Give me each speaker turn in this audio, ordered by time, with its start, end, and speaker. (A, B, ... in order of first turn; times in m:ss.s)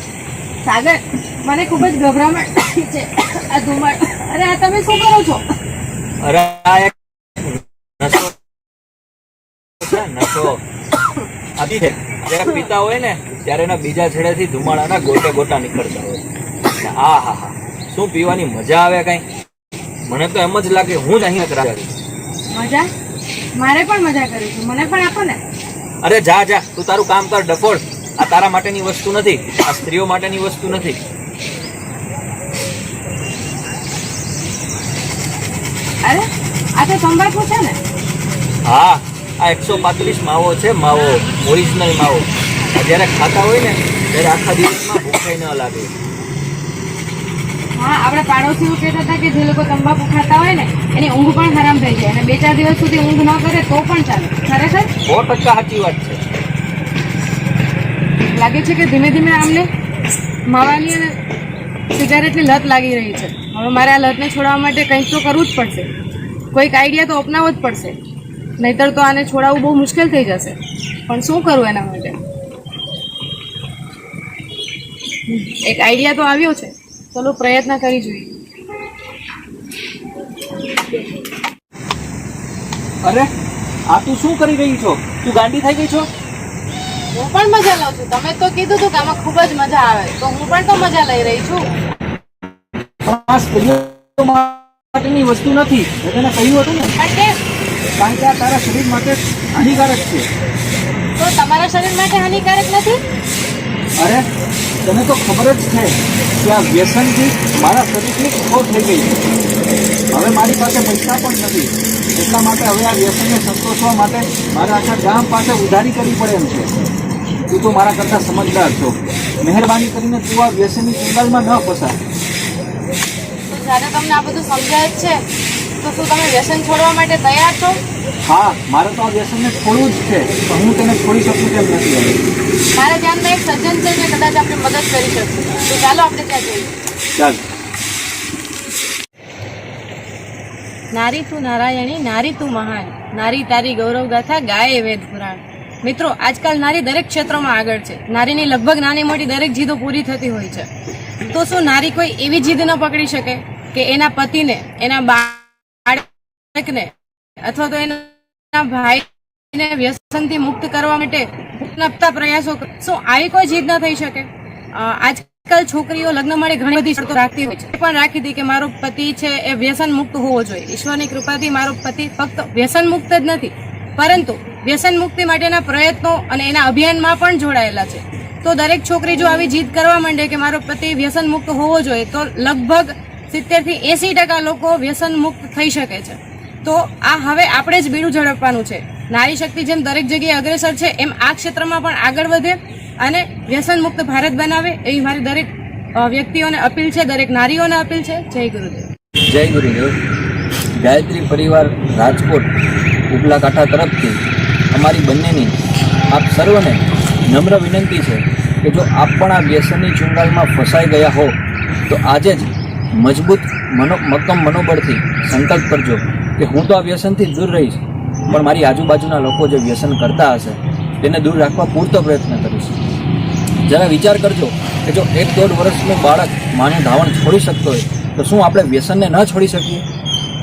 0:00.6-0:05.4 A
0:06.2-0:08.4 B
0:09.8-0:10.6 B
0:11.6-0:19.2 B
0:20.0-0:21.9 B
0:22.5-0:22.9 A
0:23.6-0:25.4 A
0:26.0-0:31.0 B
0:36.0-0:37.8 A
0:38.7-0:45.9 B
0:47.8-0:54.9 A
0:55.0-0:56.2 B
0:58.2-0:59.7 A
1:00.5-1:01.2 A
1:01.9-1:05.9 A
1:06.5-1:08.0 A
1:08.6-1:12.2 A
1:15.3-1:18.3 A
1:23.0-1:23.3 B
1:23.9-1:26.1 B
1:27.1-1:31.7 A
1:33.0-1:36.9 B
1:37.0-1:37.4 A
1:38.0-1:40.3 B
1:41.2-1:43.0 A
1:44.0-1:44.2 B
1:44.8-1:49.2 B
1:50.1-1:56.7 B
1:57.5-2:02.0 B
2:03.5-2:05.2 A
2:05.8-2:07.8 A
2:08.3-2:12.2 B
2:12.8-2:16.7 A
2:17.2-2:17.4 B
2:20.9-3:18.9 A
3:19.3-3:19.9 B
3:20.8-3:22.5 B
3:23.1-3:24.2 B
3:24.7-3:25.5 B
3:26.1-3:31.3 B
3:31.9-3:42.8 B
3:43.7-3:49.8 B